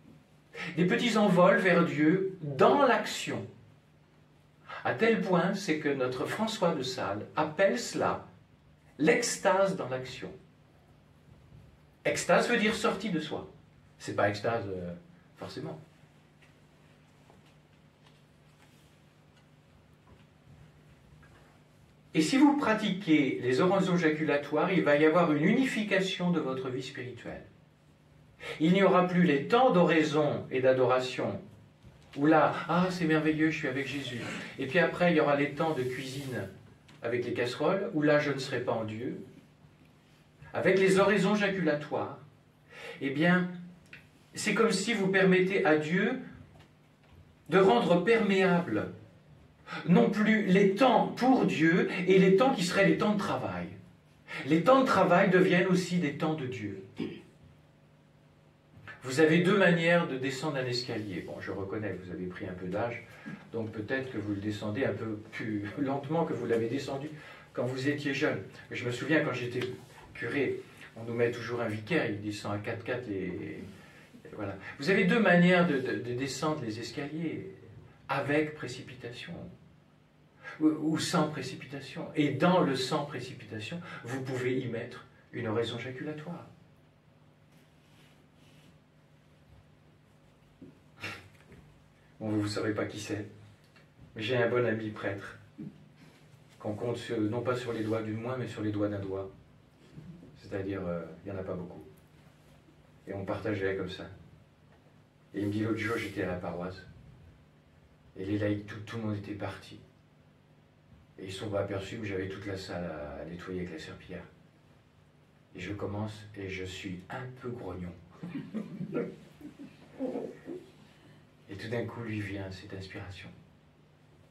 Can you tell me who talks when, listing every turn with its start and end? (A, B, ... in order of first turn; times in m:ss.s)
0:00.7-0:03.4 A
0:04.8-0:08.2 A
0:09.0-0:10.4 A
0:12.0-0:13.5 A
0:14.0-0:15.8 A
0:22.1-0:27.5 A
0:28.6-0:31.4 A
0:32.2-0:36.5 A
0:37.0-0:39.2 A
0:40.5-0:42.2 A
0:43.0-0:43.5 A
0:44.3-0:46.2 A
0:47.5-0:48.9 A
0:49.8-0:53.8 A
0:54.4-0:56.8 A
0:59.0-1:13.7 A
1:14.3-1:17.6 A
1:18.1-1:19.5 A
1:20.6-1:26.5 A
1:32.2-1:33.3 A
1:34.1-1:35.4 A
1:36.6-1:39.3 A
1:40.4-1:41.9 A
1:43.1-1:44.1 A
1:45.3-1:46.9 A
1:48.2-1:49.8 A
1:51.2-1:54.3 A
1:55.5-1:58.0 A
2:01.5-2:03.3 A